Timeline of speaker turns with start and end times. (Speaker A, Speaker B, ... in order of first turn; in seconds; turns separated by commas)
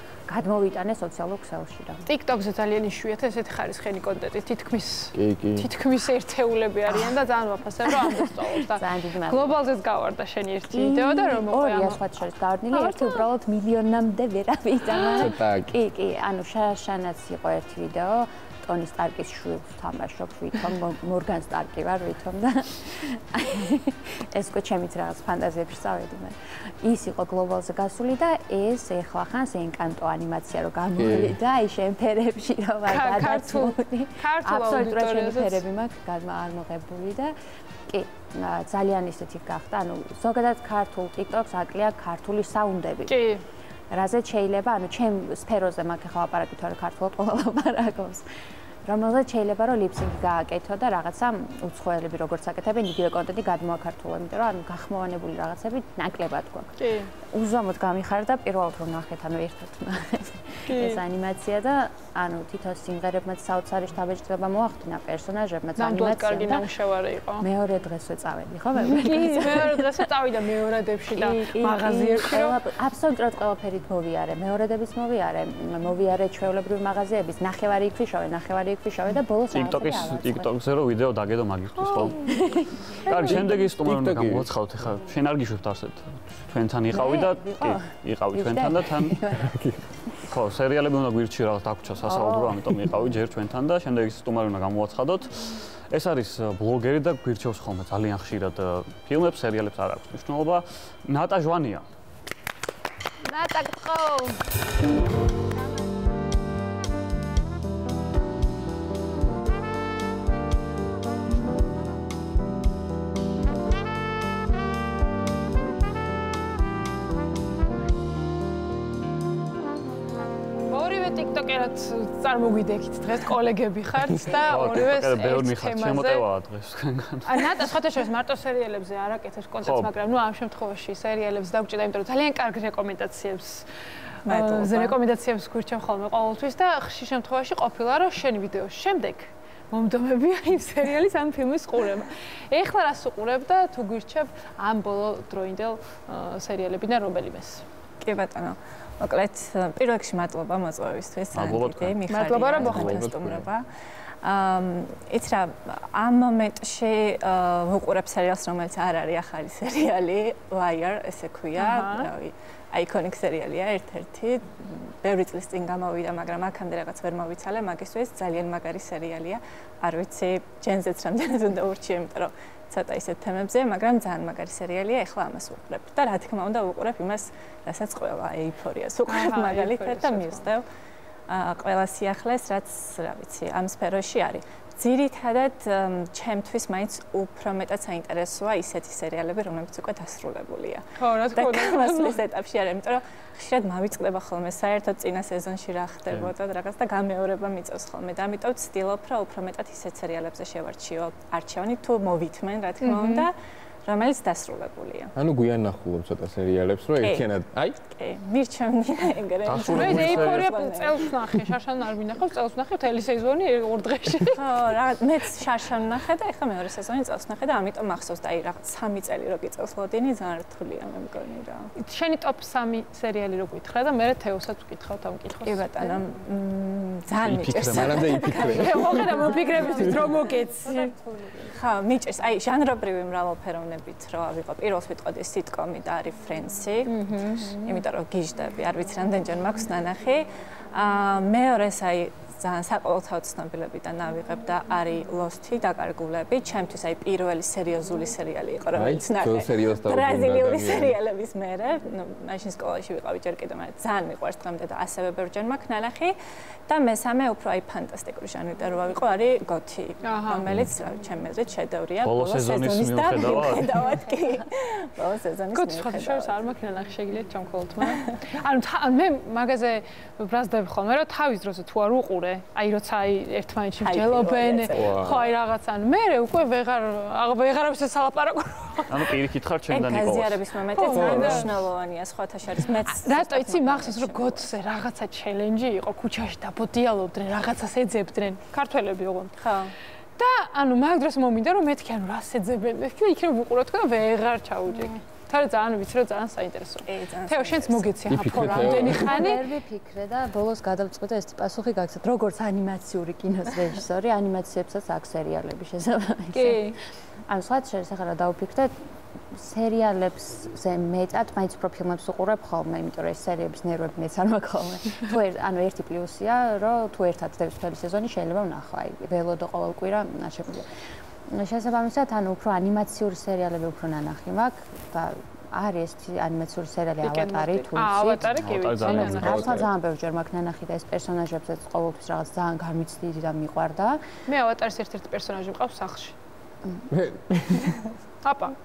Speaker A: 0.3-2.0, Speaker B: 2.1-12.0, Speaker C: 5.1-5.7, Speaker A: 6.9-7.2, Speaker A: 7.9-9.6, Speaker A: 10.7-37.4, Speaker B: 12.7-13.3, Speaker C: 15.0-15.8, Speaker C: 31.0-31.4, Speaker B: 32.9-35.6, Speaker A: 37.9-43.2, Speaker B: 43.1-43.4, Speaker A: 43.9-48.2, Speaker A: 48.9-56.8, Speaker B: 56.8-57.1, Speaker A: 57.3-66.7, Speaker B: 60.7-61.0, Speaker B: 65.8-67.5, Speaker A: 67.4-70.1, Speaker B: 68.9-72.6, Speaker A: 71.1-80.5, Speaker D: 79.5-82.2, Speaker B: 82.0-82.3, Speaker A: 82.2-83.0, Speaker D: 83.0-89.2, Speaker C: 83.1-84.5, Speaker A: 86.9-89.5, Speaker C: 89.3-89.8, Speaker D: 90.3-101.8, Speaker A: 92.1-92.5, Speaker B: 103.2-104.4, Speaker B: 120.7-126.2, Speaker D: 124.5-127.7, Speaker B: 127.3-133.7, Speaker D: 129.6-129.9, Speaker E: 134.3-135.0, Speaker B: 134.3-147.7, Speaker E: 148.0-180.7, Speaker D: 151.3-152.0, Speaker B: 152.1-153.0, Speaker C: 152.6-153.5, Speaker D: 152.7-153.0, Speaker B: 161.6-162.1, Speaker B: 179.1-180.5, Speaker E: 181.3-203.3, Speaker B: 191.0-192.2, Speaker B: 202.8-203.3, Speaker E: 203.9-205.1, Speaker C: 205.2-207.8, Speaker E: 207.0-207.3, Speaker E: 207.8-211.2, Speaker D: 209.4-210.4, Speaker B: 209.7-214.4, Speaker E: 214.4-221.7, Speaker B: 221.8-226.0, Speaker E: 225.4-256.2, Speaker D: 227.2-228.1, Speaker C: 227.6-230.1, Speaker B: 228.2-230.9, Speaker A: 236.9-237.8, Speaker C: 248.7-251.0, Speaker E: 256.7-266.4, Speaker B: 260.0-260.5, Speaker D: 262.0-263.8, Speaker B: 265.6-279.1, Speaker E: 273.8-275.3, Speaker C: 274.7-275.1, Speaker D: 278.9-280.4, Speaker E: 279.7-284.6, Speaker B: 280.7-281.5, Speaker C: 281.0-281.3, Speaker D: 281.2-281.5, Speaker B: 282.9-289.4, Speaker E: 289.4-289.8, Speaker B: 290.2-299.4, Speaker E: 296.9-298.0, Speaker C: 298.1-299.2, Speaker A: 298.4-306.7, Speaker B: 306.3-306.8, Speaker A: 307.3-308.8, Speaker A: 309.3-320.7, Speaker A: 321.3-334.0, Speaker B: 327.0-329.6, Speaker D: 328.4-329.7, Speaker C: 328.9-329.7, Speaker B: 334.3-336.2, Speaker C: 336.9-337.8, Speaker B: 338.2-338.6